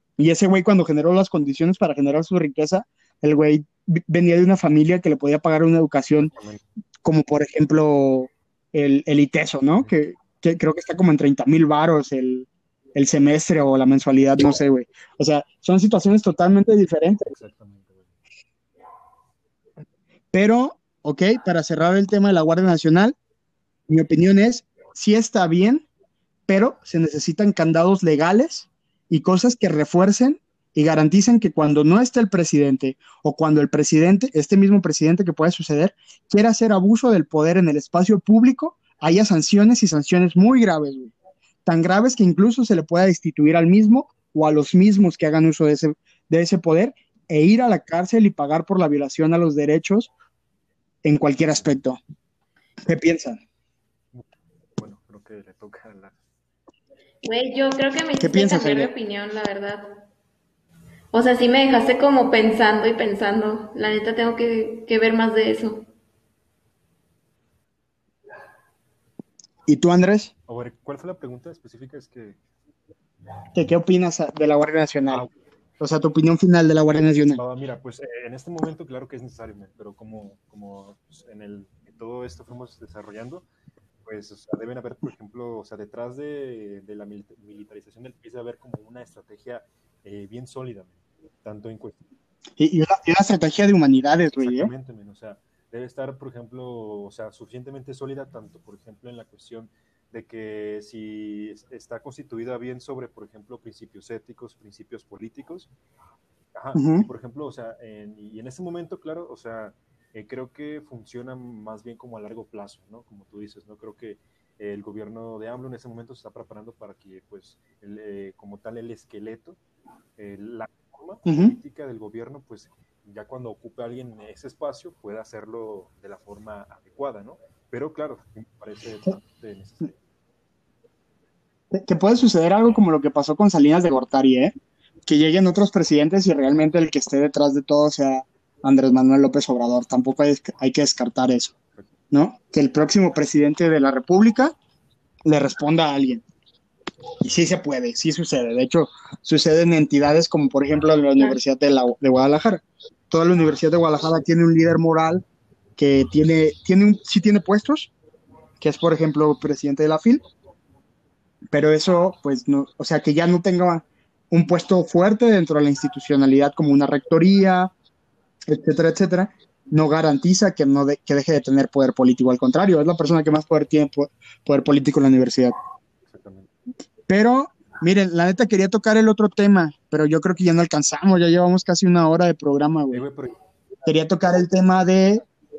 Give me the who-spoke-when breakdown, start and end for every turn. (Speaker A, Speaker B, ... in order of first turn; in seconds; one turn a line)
Speaker A: 0.2-6.3
Speaker B: 6.2-6.6
Speaker A: 7.0-17.3
Speaker B: 17.3-18.1
Speaker A: 20.3-23.1
Speaker A: 23.9-25.9
Speaker A: 26.5-41.1
Speaker A: 41.7-50.1
Speaker A: 51.0-52.0
Speaker A: 52.9-53.4
Speaker B: 54.1-56.2
Speaker C: 57.2-59.9
Speaker A: 58.2-58.9
Speaker C: 61.1-65.8
Speaker A: 69.7-70.3
Speaker B: 70.5-72.4
Speaker A: 73.5-75.3
Speaker A: 75.8-77.4
Speaker B: 77.3-83.5
Speaker B: 84.0-92.1
Speaker A: 92.6-94.7
Speaker B: 94.4-105.7
Speaker B: 106.5-119.6
Speaker A: 106.8-107.1
Speaker B: 120.2-130.0
Speaker A: 121.3-121.6
Speaker A: 131.7-134.5
Speaker A: 135.1-141.5
Speaker A: 142.1-144.6
Speaker A: 145.2-146.2
Speaker A: 147.2-155.2
Speaker A: 155.8-157.9
Speaker A: 158.6-160.2
Speaker A: 161.5-167.7
Speaker A: 168.5-175.6
Speaker B: 176.1-176.5
Speaker A: 177.1-183.0
Speaker B: 182.9-183.4
Speaker A: 183.8-185.2